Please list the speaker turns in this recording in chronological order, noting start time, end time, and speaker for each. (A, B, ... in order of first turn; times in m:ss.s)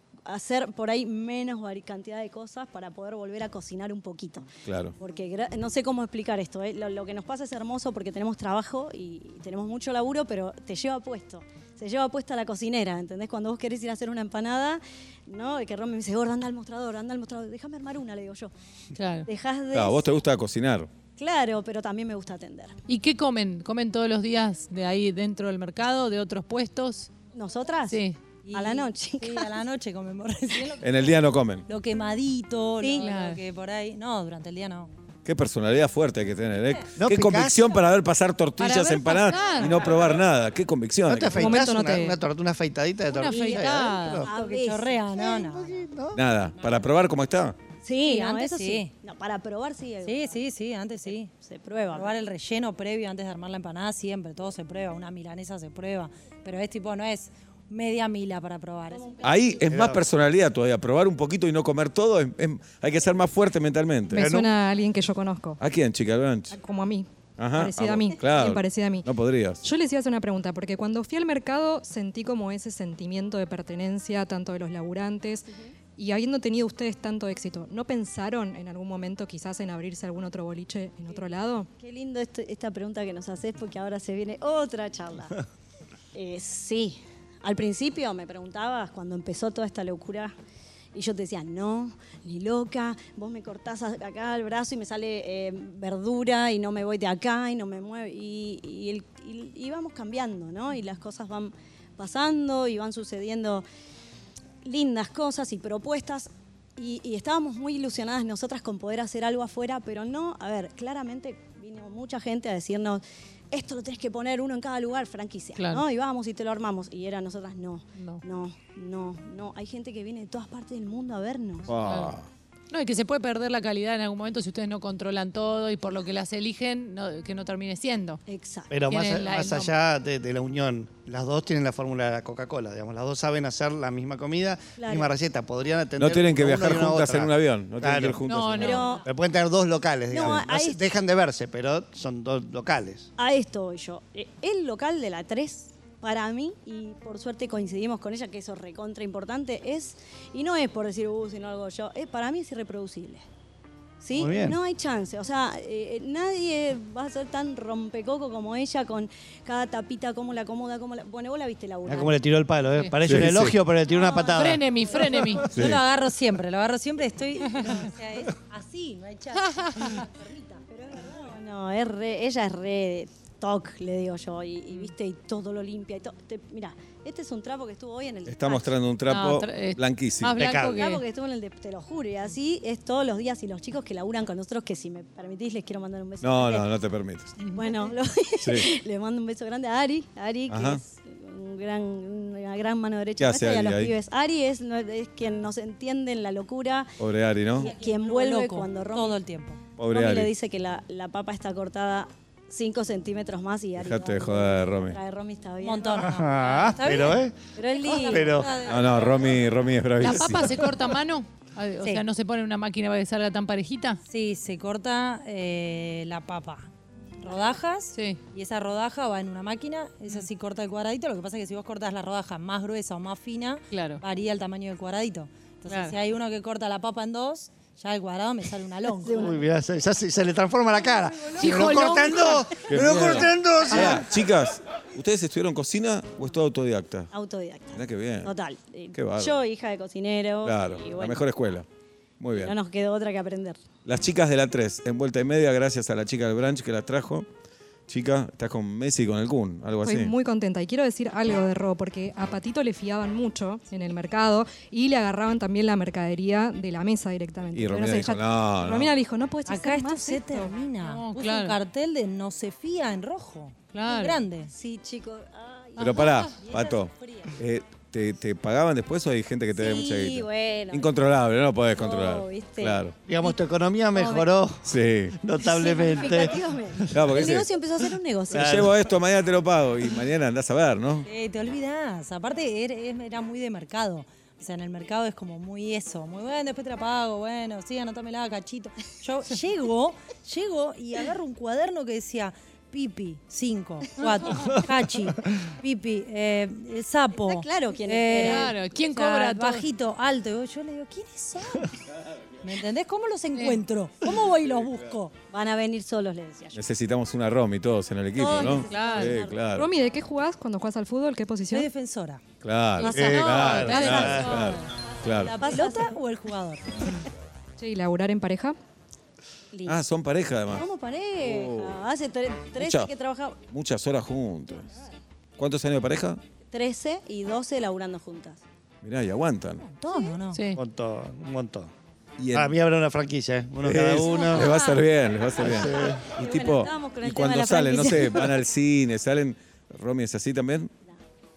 0:00.3-0:18.5 A
0:04.6-0:04.9 B
0:18.9-0:19.3 C
0:19.2-0:20.1 A
0:19.7-0:20.9 B
0:21.2-0:22.7 A
0:22.9-0:27.1 C
0:27.3-0:28.0 A
0:27.9-0:28.2 C
0:28.4-0:34.9 D
0:28.5-0:29.5 A
0:30.8-0:31.6 B
0:32.8-0:33.1 A
0:33.0-0:33.4 C
0:35.2-0:41.4 B
0:36.6-0:36.9 D
0:37.0-0:37.7 E
0:38.6-0:39.8 C
0:39.2-0:40.0 D
0:41.1-0:44.3 E
0:41.3-0:42.2 F
0:43.1-0:44.2 C
0:43.3-0:43.6 A
0:44.2-0:45.9 D
0:44.2-0:45.0 A
0:45.1-0:46.2 E
0:46.1-0:47.6 B
0:47.8-0:50.4 A
0:48.0-0:48.9 D
0:50.0-0:51.3 D
0:51.4-0:52.1 A
0:51.9-0:59.3 D
0:59.2-1:04.3 B
0:59.7-1:00.0 E
1:04.1-1:05.6 F
1:04.2-1:04.5 E
1:05.6-1:06.5 B
1:06.5-1:09.1 F
1:07.4-1:09.6 B
1:09.6-1:21.7 F
1:21.8-1:25.4 A
1:26.1-1:30.3 A
1:30.9-1:43.6 A
1:44.6-2:01.8 A
1:55.6-1:55.8 C
2:01.7-2:02.3 B
2:01.8-2:02.2 C
2:02.7-2:08.2 C
2:08.3-2:08.8 A
2:08.7-2:18.2 E
2:08.9-2:09.7 C
2:14.8-2:15.1 A
2:16.0-2:18.8 B
2:18.2-2:19.0 C
2:18.5-2:19.0 A
2:19.0-2:23.1 E
2:20.1-2:20.9 A
2:23.2-2:33.2 A
2:34.0-2:42.1 A
2:34.1-2:34.6 E
2:41.8-2:45.5 E
2:43.0-2:43.5 B
2:43.9-2:44.3 A
2:44.3-2:45.5 C
2:45.4-2:50.6 D
2:50.7-2:58.8 A
2:58.3-3:00.4 B
2:59.1-3:01.0 C
3:00.3-3:00.8 E
3:00.7-3:06.7 A
3:06.2-3:07.4 B
3:07.4-3:07.8 C
3:07.5-3:17.0 A
3:10.5-3:10.8 B
3:13.2-3:13.9 B
3:17.0-3:17.7 B
3:17.5-3:19.6 D
3:17.6-3:19.2 A
3:19.8-3:20.3 B
3:19.9-3:26.0 A
3:23.8-3:25.0 B
3:25.6-3:29.4 D
3:26.0-3:27.4 E
3:27.6-3:28.4 A
3:28.1-3:28.5 E
3:28.6-3:30.5 B
3:30.0-3:34.0 C
3:34.1-3:36.7 D
3:37.2-3:49.4 D
3:37.9-3:38.2 C
3:43.7-3:44.0 C
3:45.7-3:46.0 C
3:49.0-3:49.4 A
3:49.2-3:54.1 E
3:51.4-3:52.5 C
3:52.6-3:57.1 B
3:57.1-4:01.2 A
3:57.7-3:58.3 B
3:58.9-3:59.3 B
4:00.4-4:01.7 B
4:02.2-4:02.5 B
4:02.3-4:03.6 A
4:03.8-4:07.3 B
4:07.9-4:10.1 B
4:09.8-4:20.5 F
4:17.5-4:18.9 B
4:19.4-4:24.5 D
4:20.8-4:21.6 C
4:23.7-4:24.2 C
4:24.4-4:26.2 A
4:25.8-4:26.4 C
4:25.8-4:33.0 B
4:26.3-4:27.3 D
4:29.5-4:30.9 A
4:31.7-4:32.8 A
4:33.0-4:37.2 E
4:34.0-4:34.2 A
4:34.6-4:35.2 B
4:35.4-4:38.5 A
4:36.9-4:37.5 B
4:38.3-4:41.0 B
4:38.3-4:38.9 E
4:41.0-5:01.8 D
4:57.2-4:58.5 A
4:58.2-4:59.7 C
5:02.4-5:05.1 D
5:03.3-5:03.6 C
5:05.3-5:06.6 A
5:06.5-5:09.7 B
5:08.1-5:09.4 A
5:08.6-5:09.2 C
5:09.5-5:11.7 F
5:11.5-5:12.2 D
5:12.4-5:15.4 B
5:12.8-5:14.3 C
5:12.8-5:13.3 A
5:12.9-5:14.3 E
5:13.0-5:16.8 D
5:15.4-5:15.9 A
5:17.6-5:18.6 F
5:19.5-5:19.8 A
5:19.6-5:20.6 B
5:20.5-5:23.4 A
5:21.2-5:21.8 B
5:22.6-5:24.7 B
5:25.4-5:26.2 B
5:26.5-5:28.4 A
5:28.8-5:29.6 B
5:29.5-5:30.4 D
5:29.9-5:30.1 A
5:30.5-5:31.7 E
5:32.2-5:32.5 B
5:32.3-5:34.5 E
5:33.6-5:40.7 B
5:34.0-5:34.8 A
5:35.4-5:36.0 E
5:35.6-5:38.4 A